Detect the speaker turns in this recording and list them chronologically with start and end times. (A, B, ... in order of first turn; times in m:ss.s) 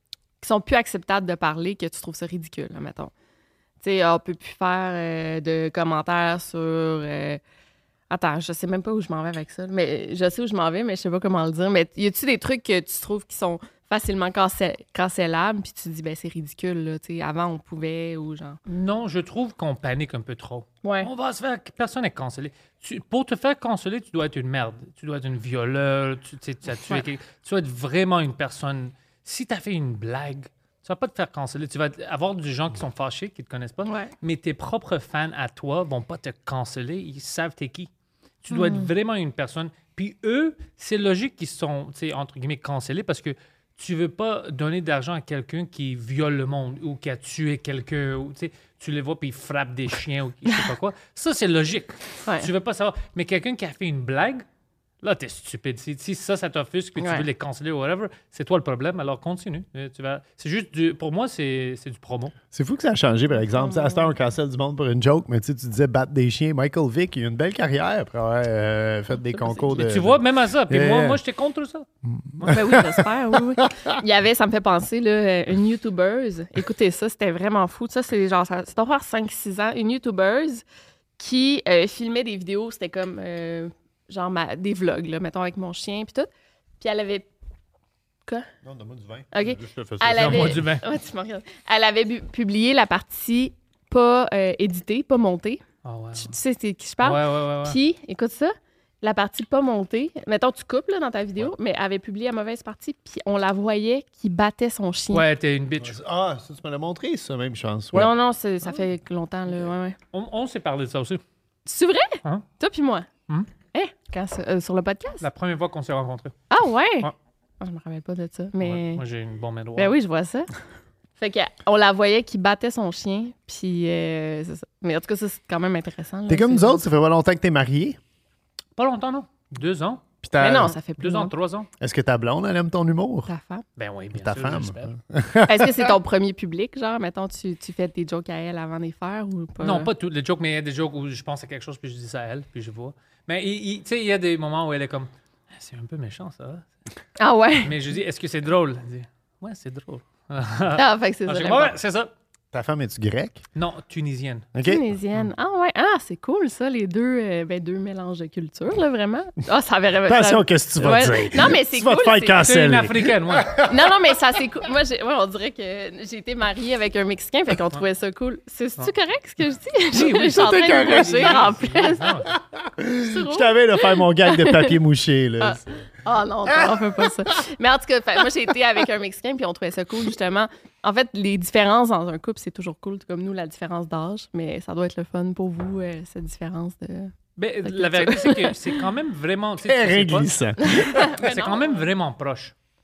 0:00.4-0:03.1 A
0:03.8-0:07.4 A
0:08.1-0:18.6 A
0:18.7-0:37.9 B
0:20.8-0:21.1 A
0:33.8-0:34.1 A
0:38.4-0:54.4 B
0:38.5-0:38.9 A
0:55.0-1:02.3 B
0:57.0-0:57.2 A
1:02.5-1:11.2 C
1:03.5-1:04.1 A
1:09.2-1:09.8 A
1:09.7-1:11.8 B
1:12.0-1:14.0 C
1:12.5-1:20.6 A
1:21.2-1:26.3 A
1:26.8-1:27.3 A
1:28.6-1:30.6 C
1:29.3-1:35.6 A
1:30.2-1:30.8 B
1:35.8-1:36.3 B
1:36.2-1:45.2 A
1:37.0-1:37.8 B
1:45.1-1:46.0 B
1:45.8-1:48.1 C
1:47.9-1:50.0 A
1:50.1-1:51.2 B
1:51.6-1:53.1 A
1:53.7-1:55.2 A
1:55.2-1:56.4 B
1:56.5-1:57.1 A
1:57.6-1:59.0 A
1:58.6-2:00.0 B
1:59.8-2:00.5 A
2:01.2-2:06.8 A
2:06.3-2:08.0 C
2:08.8-2:10.0 B
2:10.2-2:10.7 C
2:10.4-2:11.3 A
2:10.6-2:11.7 B
2:11.8-2:13.3 C
2:13.3-2:13.6 A
2:13.8-2:14.9 B
2:14.1-2:16.0 C
2:15.5-2:19.9 A
2:19.6-2:26.7 B
2:27.2-2:27.8 A
2:27.6-2:32.1 B
2:30.8-2:31.8 A
2:32.5-2:33.4 C
2:33.6-2:34.5 B
2:34.5-2:34.8 C
2:34.6-2:42.4 A
2:40.0-2:43.7 C
2:42.4-2:43.6 B
2:43.6-2:52.0 A
2:49.9-2:52.4 B
2:50.2-2:51.5 C
2:52.6-2:55.9 C
2:53.0-2:54.8 A
2:55.4-3:07.1 A
2:56.5-2:56.8 C
3:07.4-3:10.3 B
3:07.6-3:08.7 A
3:09.6-3:11.1 C
3:10.6-3:11.8 A
3:11.0-3:12.5 B